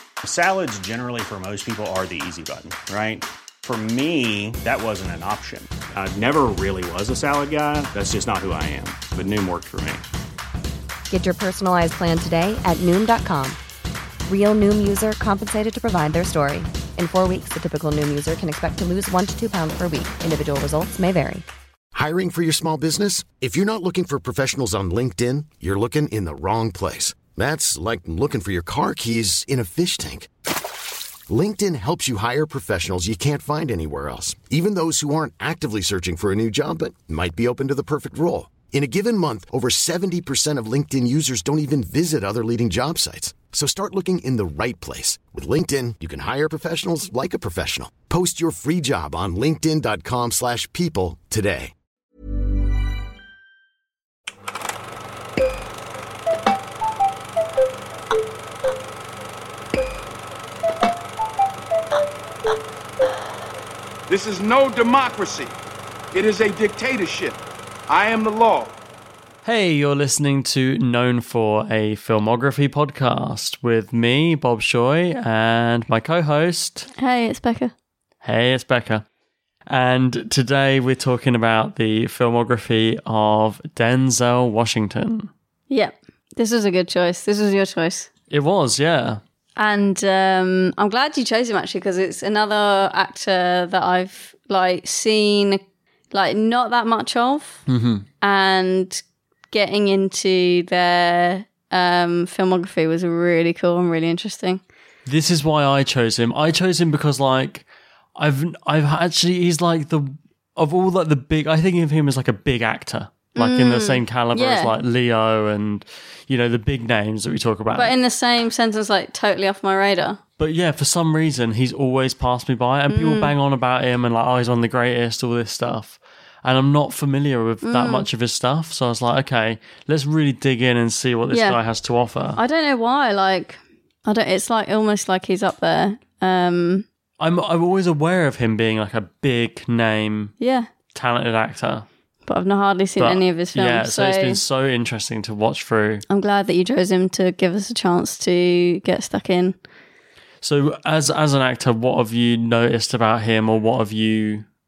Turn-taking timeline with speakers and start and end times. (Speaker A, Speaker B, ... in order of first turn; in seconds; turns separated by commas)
Speaker A: 0.2-10.0, Speaker B: 11.1-13.6, Speaker B: 14.3-21.4, Speaker C: 21.9-30.3, Speaker C: 31.3-51.7, Speaker D: 64.1-65.5, Speaker D: 66.1-68.8, Speaker E: 69.5-76.9, Speaker F: 77.0-77.7, Speaker E: 78.2-79.0, Speaker E: 79.7-85.3, Speaker F: 85.7-88.1, Speaker E: 88.3-89.2, Speaker F: 89.6-95.6, Speaker F: 96.1-97.6, Speaker E: 97.7-98.0, Speaker F: 98.2-104.6, Speaker E: 105.1-118.0, Speaker F: 113.4-114.7, Speaker F: 117.8-120.2, Speaker E: 120.4-132.4, Speaker F: 122.9-123.3, Speaker F: 127.6-128.1, Speaker F: 131.3-131.6, Speaker F: 132.4-136.9, Speaker E: 137.2-140.3, Speaker F: 140.4-140.7, Speaker E: 140.9-141.9, Speaker F: 142.3-144.4, Speaker E: 143.0-146.0, Speaker F: 146.1-149.6, Speaker E: 150.4-154.4